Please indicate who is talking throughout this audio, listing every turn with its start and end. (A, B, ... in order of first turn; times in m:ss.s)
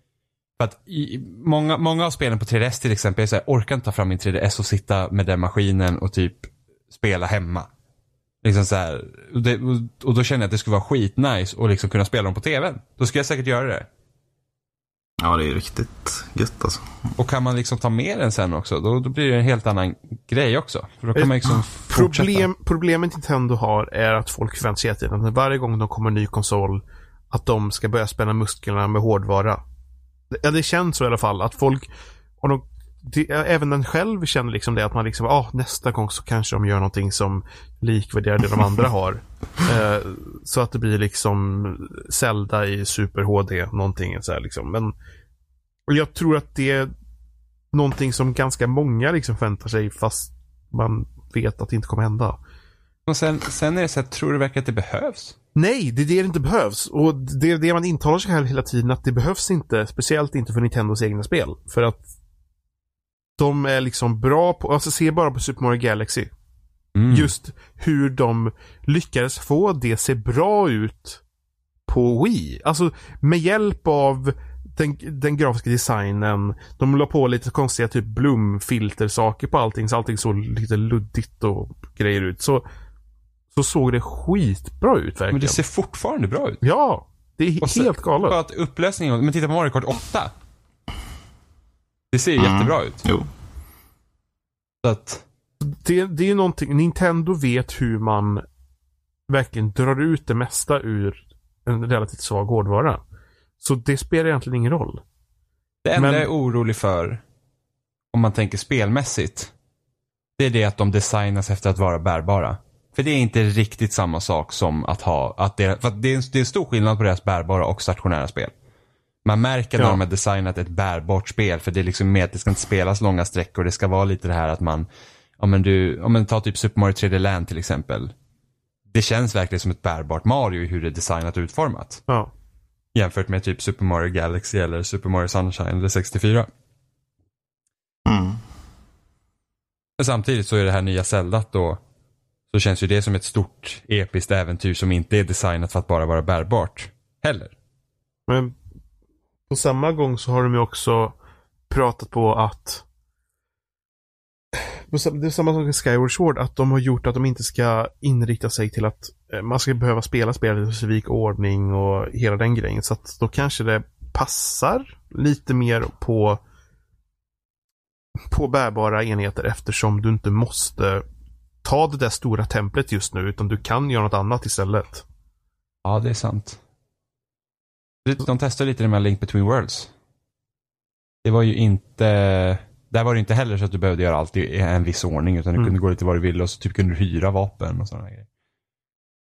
0:00.6-0:07.7 A
0:08.4-0:13.9 A
0:15.2-0:16.9 B
0:17.2-0:22.5 A
0:21.2-0:29.6 C
0:30.3-0:31.9 C
0:32.4-0:44.9 C
0:45.9-0:46.9 C
0:47.7-0:52.4 C
0:53.1-0:55.4 A
0:55.6-1:02.0 C
1:03.4-1:06.3 C
1:07.0-1:07.3 A
1:07.1-1:11.2 C
1:11.9-1:22.6 C
1:23.5-1:25.6 C
1:25.3-1:26.6 A
1:26.6-1:28.4 C
1:27.6-1:30.3 A
1:32.1-1:33.0 A
1:32.4-1:33.3 B
1:34.8-1:35.2 A
1:35.6-1:38.4 C
1:39.3-1:43.0 C
1:43.6-1:45.0 C
1:45.8-1:47.2 A
1:46.0-1:46.3 C
1:48.1-1:49.5 A
1:50.4-1:58.5 A
1:59.2-2:04.9 A
2:05.4-2:08.1 A
2:08.9-2:12.0 A
2:13.0-2:16.5 A
2:18.1-2:18.4 B
2:20.0-2:21.8 A
2:22.5-2:27.5 A
2:28.3-2:28.6 C
2:29.5-2:31.2 C
2:31.7-2:32.8 C
2:34.6-2:46.4 C
2:48.3-2:51.0 C
2:51.6-2:55.0 C
2:55.8-2:56.6 A
2:58.0-2:59.9 A
3:01.2-3:08.3 A